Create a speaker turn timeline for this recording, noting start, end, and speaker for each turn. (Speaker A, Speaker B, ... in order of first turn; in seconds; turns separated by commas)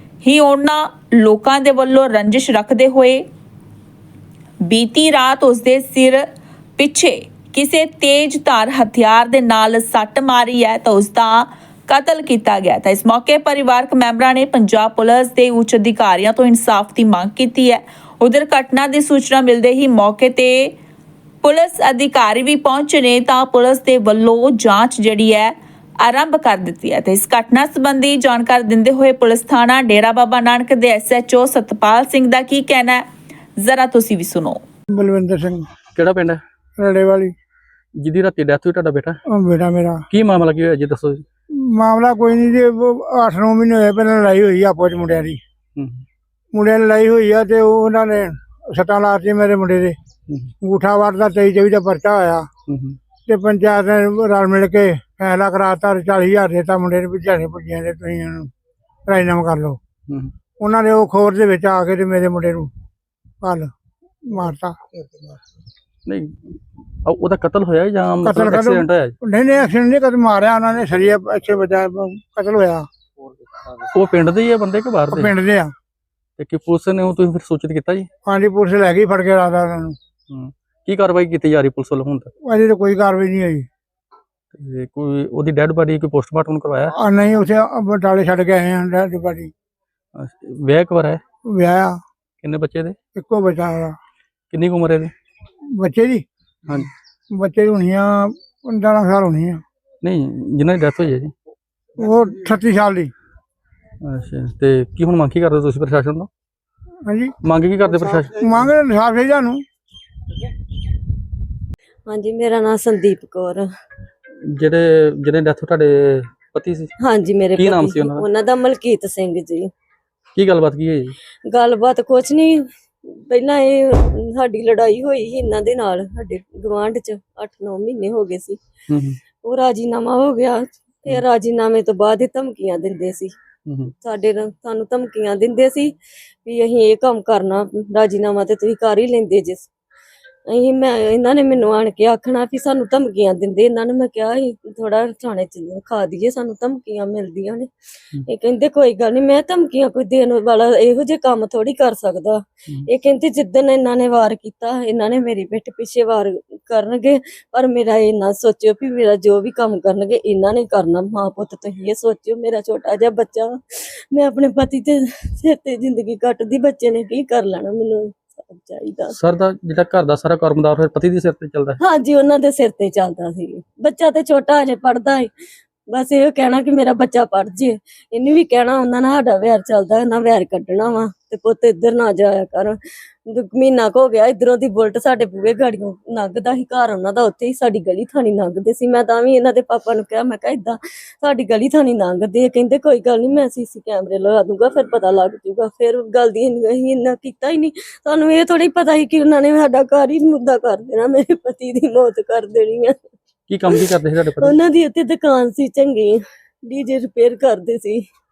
Speaker A: 0.2-3.2, Speaker A: 4.7-6.3, Speaker A: 6.8-20.8, Speaker A: 21.4-33.0, Speaker A: 33.6-34.6, Speaker B: 34.9-35.7, Speaker C: 36.0-36.4, Speaker B: 36.8-37.3, Speaker C: 38.0-39.2, Speaker B: 39.3-40.0, Speaker C: 40.1-41.2, Speaker B: 41.5-45.4, Speaker C: 45.8-46.0, Speaker B: 46.5-50.0, Speaker B: 50.6-52.5, Speaker C: 52.7-53.0, Speaker B: 53.3-58.5, Speaker B: 59.1-59.8, Speaker B: 60.6-62.7, Speaker B: 63.4-64.8, Speaker C: 66.1-69.2, Speaker B: 68.2-72.9, Speaker C: 73.9-75.3, Speaker B: 75.1-75.7, Speaker C: 76.4-78.1, Speaker B: 78.2-80.0, Speaker C: 80.3-82.3, Speaker B: 82.4-83.7, Speaker C: 84.5-86.9, Speaker B: 86.9-89.5, Speaker C: 90.2-91.2, Speaker B: 91.5-92.0, Speaker C: 92.4-93.0, Speaker B: 93.2-94.0, Speaker C: 94.5-95.1, Speaker B: 95.7-96.2, Speaker B: 97.3-99.6, Speaker C: 100.0-101.3, Speaker B: 102.0-103.1, Speaker C: 104.0-106.3, Speaker B: 107.0-107.4, Speaker C: 107.4-108.5, Speaker B: 108.2-109.6, Speaker D: 112.1-113.7, Speaker C: 114.5-116.9, Speaker D: 117.0-119.7, Speaker C: 117.6-118.2, Speaker C: 120.3-121.2, Speaker D: 121.5-128.6, Speaker C: 128.9-129.2, Speaker D: 129.4-133.3, Speaker C: 133.7-133.9, Speaker D: 134.0-135.9, Speaker D: 136.5-139.7, Speaker D: 140.5-147.7, Speaker D: 148.3-169.2, Speaker C: 169.1-171.8, Speaker D: 171.8-175.3, Speaker D: 175.9-203.0, Speaker C: 203.5-204.6, Speaker D: 204.4-208.0